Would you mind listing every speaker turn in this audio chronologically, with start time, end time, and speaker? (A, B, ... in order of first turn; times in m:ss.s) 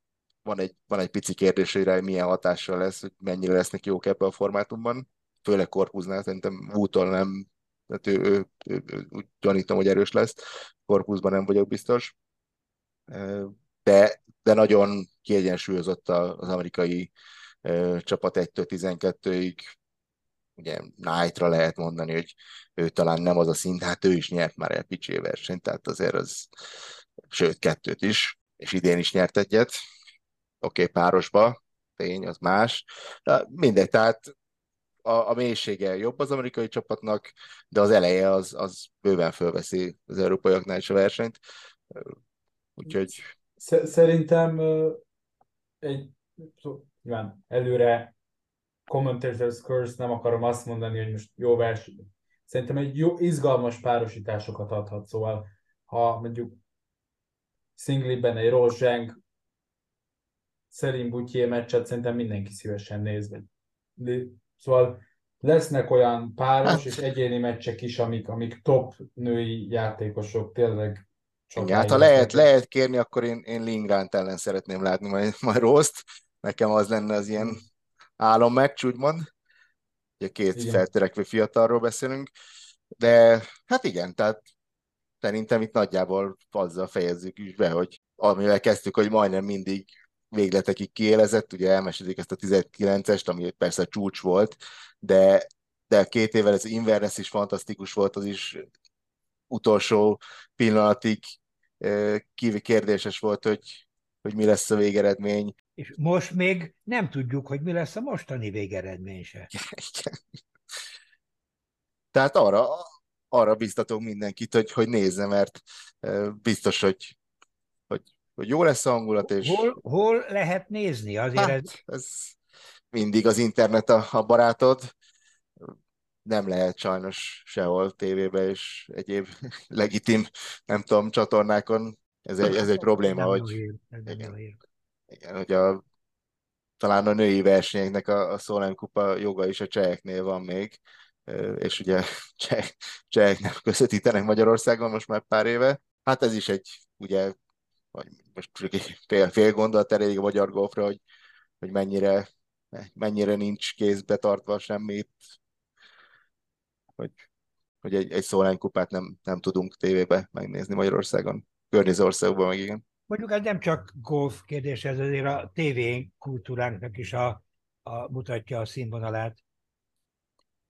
0:00.4-0:12.1 A
0:13.1-0:17.1 A
0:17.6-0:19.6 A
0:20.6-0:26.5 A
0:27.3-0:29.7 A
0:30.6-0:34.3 A
0:35.0-0:41.4 A
0:42.8-0:43.2 A
0:43.6-0:45.0 B
0:45.8-0:48.1 B
0:48.9-0:56.6 B
0:57.8-0:59.2 B
1:00.7-1:12.5 B
1:06.7-1:07.0 A
1:11.6-1:17.6 A
1:18.2-1:19.2 A
1:20.2-1:22.3 A
1:20.6-1:20.8 B
1:23.0-1:24.4 A
1:25.2-1:38.6 A
1:39.5-1:45.5 A
1:45.8-1:49.5 C
1:49.6-1:50.2 A
1:52.1-1:57.2 A
1:57.9-1:59.8 A
1:59.2-2:01.7 C
2:01.4-2:02.4 A
2:02.9-2:04.9 A
2:06.3-2:13.6 A
2:12.4-2:14.6 C
2:15.1-2:15.8 A
2:16.8-2:27.3 A
2:27.9-2:31.0 A
2:31.6-2:35.2 A
2:37.0-2:37.2 A
2:37.8-2:42.8 A
2:43.1-2:49.4 C